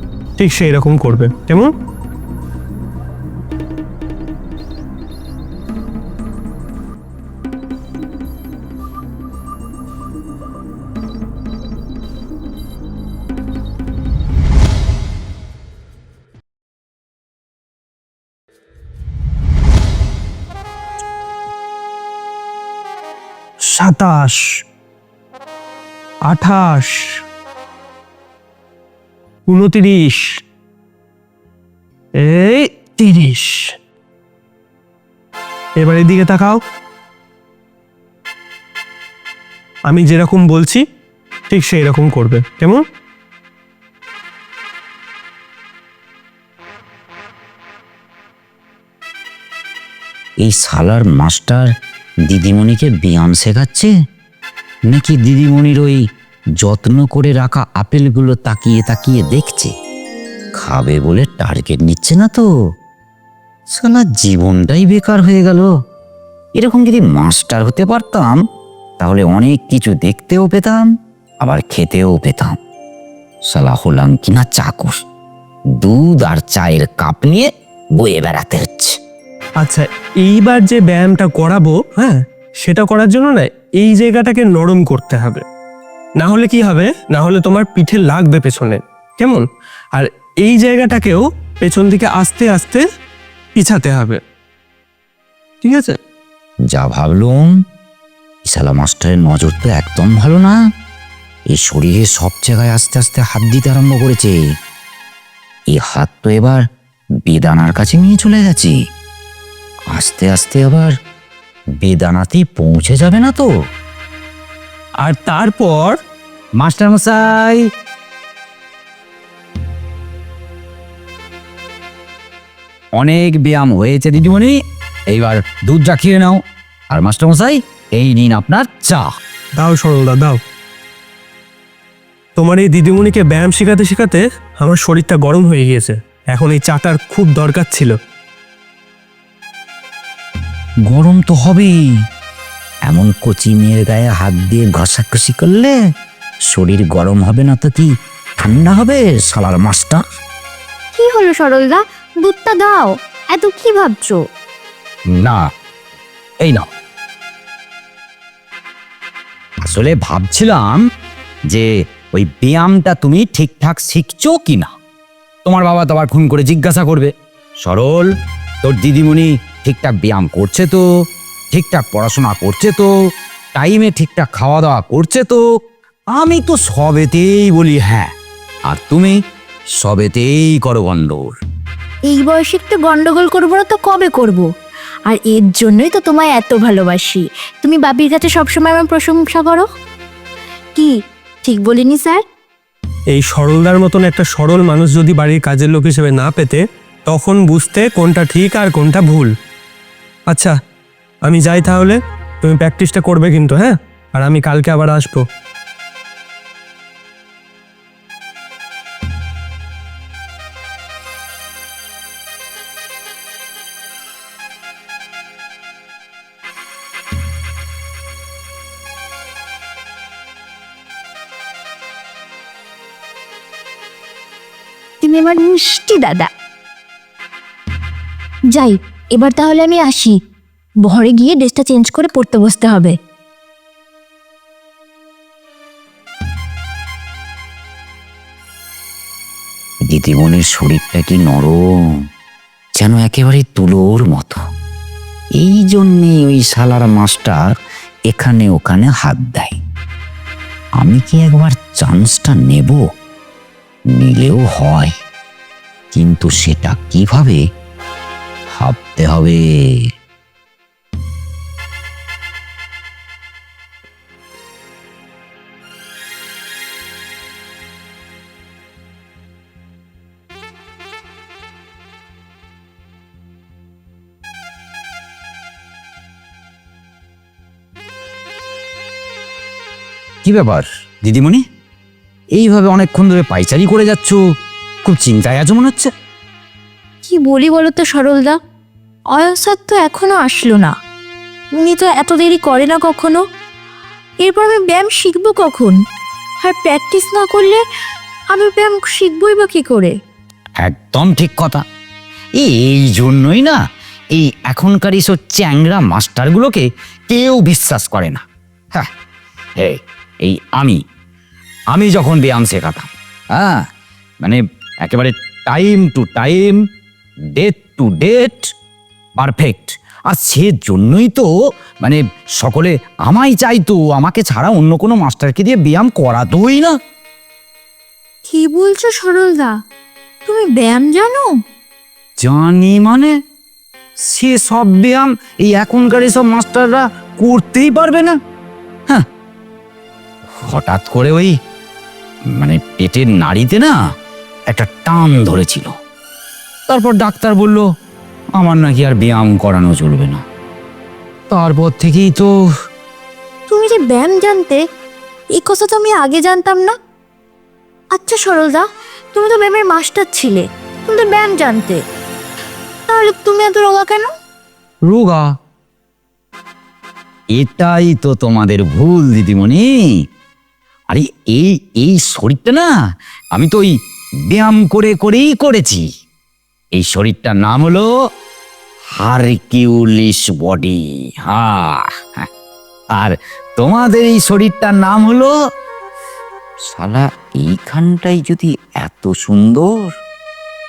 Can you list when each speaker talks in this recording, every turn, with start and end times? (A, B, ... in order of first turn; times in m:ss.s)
0:00.4-0:01.7 A
0:23.7-0:24.5 A
0:26.3-0:27.2 A
0:29.5-0:30.4 A
0:32.2-0:33.7 A
0:35.8-0:36.6 A
0:39.9-0:40.8 A
0:41.5-0:42.8 A
0:50.4-0:51.7 B
0:52.3-0:53.9 B
0:54.9-0:56.0 B
0:56.6-0:59.7 B
1:00.6-1:02.5 B
1:03.8-1:05.7 B
1:06.6-1:08.4 B
1:09.0-1:10.9 B
1:11.4-1:12.6 B
1:13.5-1:14.9 B
1:15.8-1:17.5 B
1:18.0-1:19.0 B
1:19.6-1:25.4 A
1:26.2-1:32.8 A
1:33.6-1:34.2 A
1:35.6-1:36.0 A
1:36.7-1:37.5 B
1:38.4-1:40.6 B
1:41.5-1:44.4 B
1:45.7-1:46.6 B
1:47.2-1:48.7 B
1:49.9-1:50.9 B
1:51.8-1:53.5 B
1:55.0-1:56.0 A
1:56.6-1:57.6 B
2:03.0-2:04.6 B
2:05.1-2:06.4 B
2:06.9-2:09.1 B
2:09.6-2:10.4 A
2:12.4-2:18.0 A
2:20.9-2:21.8 B
2:22.9-2:25.8 B
2:26.5-2:30.0 B
2:30.9-2:34.2 C
2:35.1-2:35.4 B
2:39.6-2:40.8 B
2:41.5-2:44.7 B
2:45.4-2:47.1 B
2:47.6-2:48.1 B
2:48.6-2:50.8 B
2:51.5-2:52.9 B
2:53.6-2:55.4 B
2:56.1-2:58.1 B
2:58.7-2:59.2 B
2:59.8-3:01.3 B
3:02.1-3:04.5 C
3:05.1-3:09.7 C
3:11.4-3:12.2 C
3:13.1-3:19.3 A
3:20.3-3:20.6 A
3:21.2-3:25.2 A
3:45.0-3:46.3 C
3:48.5-3:50.2 C
3:50.8-3:53.0 C
3:59.9-4:01.6 B
4:02.8-4:04.4 B
4:05.4-4:07.5 B
4:08.1-4:09.6 B
4:10.8-4:12.8 B
4:13.9-4:14.9 B
4:15.9-4:17.4 B
4:18.5-4:19.4 B
4:40.2-4:41.4 B
4:42.4-4:44.2 B
4:44.8-4:45.9 B
4:47.0-4:48.4 C
4:49.1-4:50.7 C
4:51.6-4:53.2 C
4:54.2-4:55.8 C
4:56.4-4:57.6 C
4:58.3-4:59.9 C
5:00.6-5:01.6 B
5:02.4-5:03.6 B
5:04.1-5:08.2 B
5:09.6-5:10.8 B
5:11.7-5:13.6 B
5:14.2-5:16.6 B
5:17.3-5:18.4 B
5:19.2-5:21.3 B
5:21.8-5:26.8 B
5:28.2-5:29.6 C
5:30.3-5:31.3 C
5:32.2-5:33.1 B
5:34.0-5:38.2 B
5:40.4-5:41.3 B
5:42.4-5:43.8 B
5:44.5-5:45.7 B
5:46.7-5:47.6 B
5:48.4-5:50.2 B
5:51.3-5:52.3 B
5:53.5-5:54.6 C
5:55.4-5:56.8 C
5:57.9-6:01.8 C
6:02.9-6:04.1 C
6:04.8-6:05.3 B
6:07.3-6:09.7 B
6:10.9-6:12.7 B
6:13.3-6:13.7 B
6:14.3-6:15.8 B
6:16.7-6:17.9 B
6:19.0-6:22.3 B
6:22.9-6:25.3 B
6:26.7-6:29.9 B